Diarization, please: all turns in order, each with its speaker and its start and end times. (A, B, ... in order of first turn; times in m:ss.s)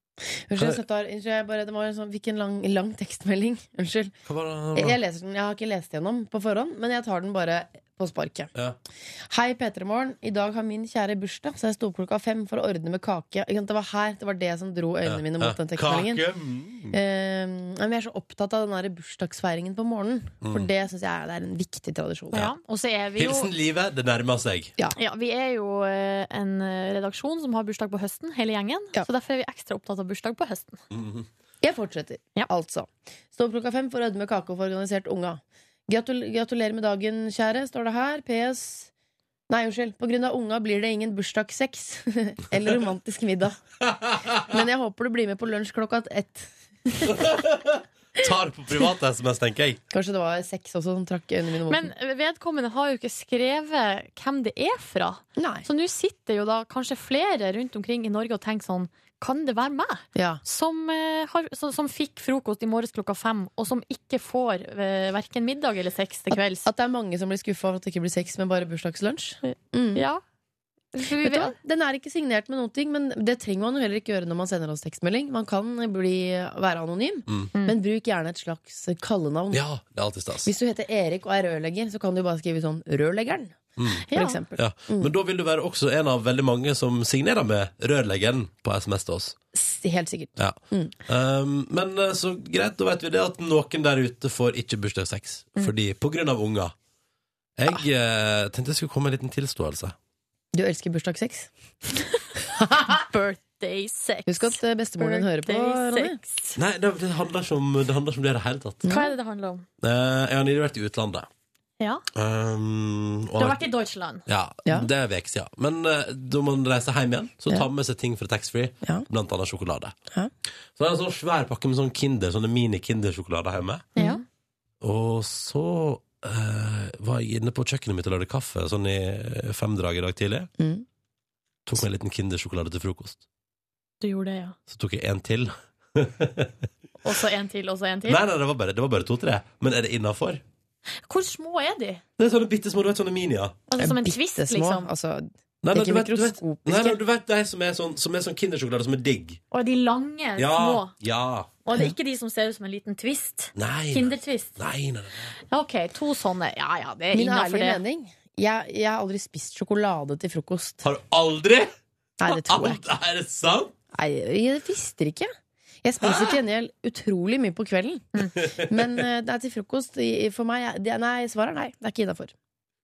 0:00.5-0:04.1 A
0:04.2-0:05.0 B
0:04.7-0:08.5 A
0:09.3-0:16.2 A
0:15.0-0:17.0 B
0:16.9-0:22.5 A
0:20.4-0:20.7 B
0:22.3-0:23.5 C
0:23.2-0:24.7 B
0:25.0-0:30.8 C
0:30.9-0:31.2 B
0:31.6-0:38.9 A
0:39.5-0:43.6 A
0:43.8-0:44.5 B
0:44.4-0:47.2 A
0:47.1-0:49.8 B
0:49.9-0:51.9 A
0:51.7-1:06.7 C
0:55.4-0:55.6 A
1:00.1-1:00.4 A
1:06.3-1:10.0 A
1:09.4-1:10.2 C
1:10.9-1:11.6 C
1:11.2-1:19.6 A
1:19.5-1:20.5 B
1:20.4-1:25.1 A
1:23.8-1:24.0 B
1:24.1-1:24.4 C
1:24.6-1:29.4 B
1:29.5-1:30.9 A
1:30.4-1:36.7 B
1:37.6-1:39.9 B
1:40.5-1:41.5 A
1:42.6-1:42.9 A
1:43.0-1:46.6 C
1:44.3-1:46.2 A
1:46.6-1:48.8 B
1:48.8-1:49.1 A
1:48.9-1:49.6 C
1:49.8-1:51.3 B
1:51.8-1:52.0 C
1:52.1-1:53.6 B
1:53.4-1:54.2 C
1:54.3-1:59.9 B
2:00.8-2:03.9 B
2:04.0-2:04.2 A
2:04.0-2:04.2 C
2:04.8-2:10.5 B
2:10.6-2:10.8 A
2:11.6-2:13.2 B
2:14.0-2:14.6 C
2:14.7-2:16.5 B
2:17.0-2:18.2 C
2:18.1-2:20.4 B
2:21.1-2:22.0 C
2:22.2-2:23.6 B
2:23.7-2:24.9 C
2:23.8-2:27.0 A
2:25.6-2:29.4 B
2:29.5-2:30.9 C
2:30.4-2:31.5 B
2:31.6-2:34.6 C
2:33.6-2:35.4 B
2:35.5-2:37.8 C
2:37.1-2:40.8 A
2:40.8-2:41.7 B
2:42.2-2:42.8 A
2:42.3-2:43.7 B
2:43.9-2:45.3 A
2:45.8-2:52.3 A
2:48.4-2:49.0 B